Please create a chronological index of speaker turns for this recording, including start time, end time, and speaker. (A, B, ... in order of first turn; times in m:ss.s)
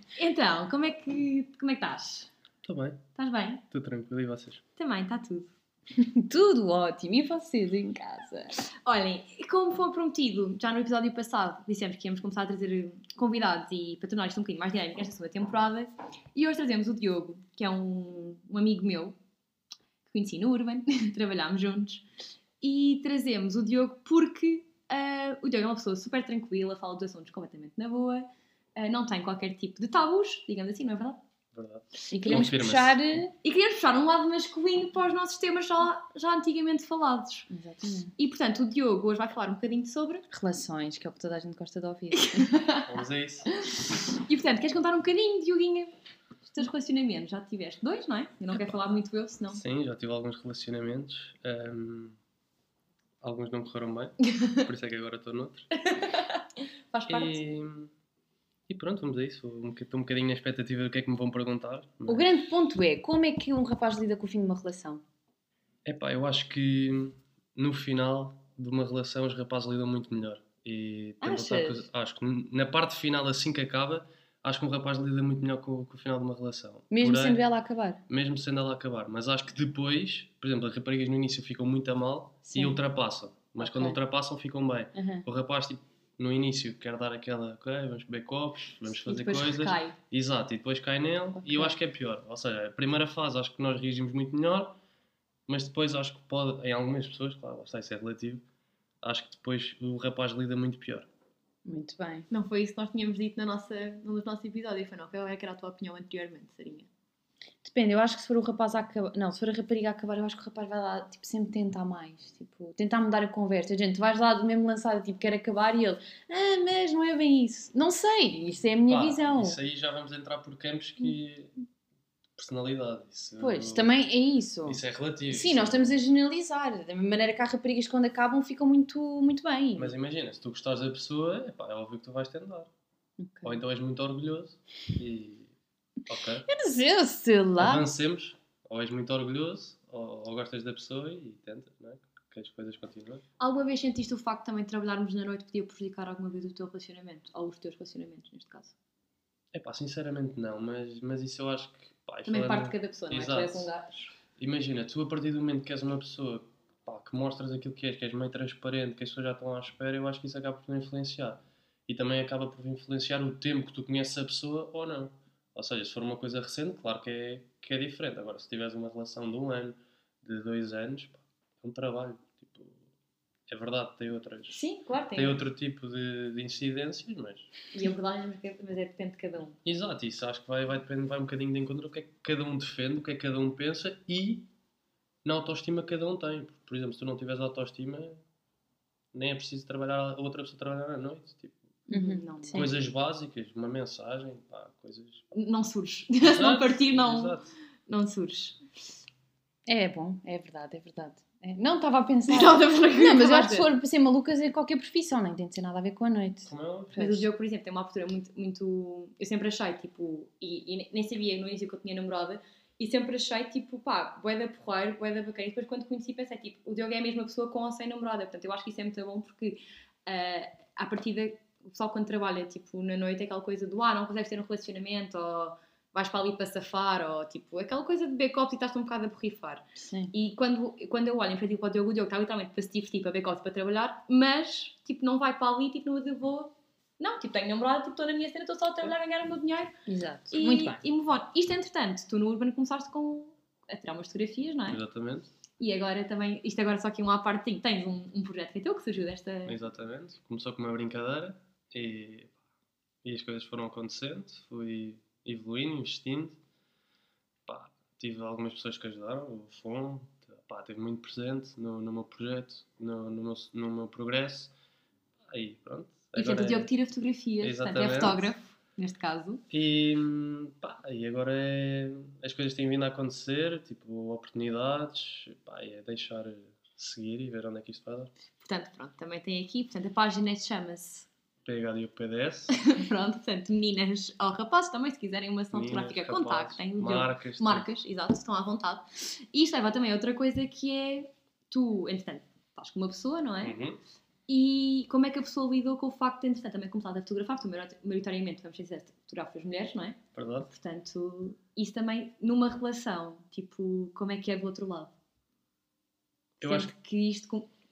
0:00.1-0:02.3 A
0:02.6-0:03.0 B
0:03.2-0:03.6 A
0:03.7-0:04.6 B
0:04.8-0:05.5 A
0:06.2-0:08.5 C
0:08.8-0:19.2 A
0:20.1-0:22.0 A
0:22.6-0:31.2 A
0:31.6-0:33.0 B
0:32.1-0:33.3 C
0:33.4-0:37.5 A
0:37.5-0:38.1 C
0:38.1-0:40.3 A
0:40.3-0:42.5 C
0:42.2-0:42.9 A
0:42.8-0:43.5 B
0:43.5-0:45.9 A
0:46.5-0:49.6 A
0:49.5-0:52.2 B
0:53.2-0:55.7 B
0:55.9-0:57.4 A
0:57.1-0:57.9 B
0:58.7-1:02.5 B
1:02.1-1:05.0 C
1:05.8-1:17.4 B
1:11.2-1:11.8 C
1:16.9-1:18.0 C
1:18.1-1:34.7 B
1:22.5-1:22.8 C
1:23.6-1:24.0 C
1:24.9-1:25.2 C
1:28.9-1:30.0 A
1:31.4-1:31.8 C
1:35.5-1:38.4 B
1:39.0-1:41.1 B
1:41.6-1:42.3 C
1:42.3-1:46.9 A
1:47.6-1:59.6 C
1:58.9-2:01.5 B
2:02.4-2:04.0 B
2:03.4-2:09.9 C
2:04.6-2:06.0 B
2:09.8-2:12.7 B
2:13.2-2:13.6 C
2:13.4-2:15.5 B
2:16.1-2:16.5 B
2:16.5-2:17.8 C
2:17.6-2:23.2 B
2:23.4-2:28.8 A
2:29.5-2:33.7 B
2:32.3-2:34.1 A
2:34.4-2:52.8 B
2:53.5-2:54.6 B
2:54.5-2:55.5 A
2:55.2-2:57.5 B
2:57.7-2:59.6 A
2:59.6-3:04.5 B
3:05.2-3:08.2 B
3:09.1-3:11.6 B
3:11.9-3:12.7 C
3:11.9-3:12.7 A
3:12.5-3:15.3 B
3:15.3-3:18.6 A
3:16.2-3:17.5 B
3:19.7-3:27.3 C
3:22.3-3:23.7 A
3:26.5-3:27.1 B
3:27.0-3:59.7 A
3:49.8-3:50.1 C
3:59.9-4:00.8 C
4:00.3-4:04.8 A
4:04.7-4:05.3 B
4:05.6-4:09.6 A
4:09.5-4:12.3 B
4:13.0-4:16.4 B
4:17.5-4:24.5 B
4:25.3-4:26.7 B
4:26.1-4:29.4 A
4:27.4-4:28.2 B
4:29.5-4:38.1 B
4:38.4-4:41.1 A
4:41.4-4:42.5 B
4:42.5-4:53.6 A
4:45.5-4:47.7 B
4:53.4-4:53.8 B
4:54.3-5:04.9 A
5:00.1-5:00.5 B
5:06.4-5:06.7 B
5:06.4-5:07.5 A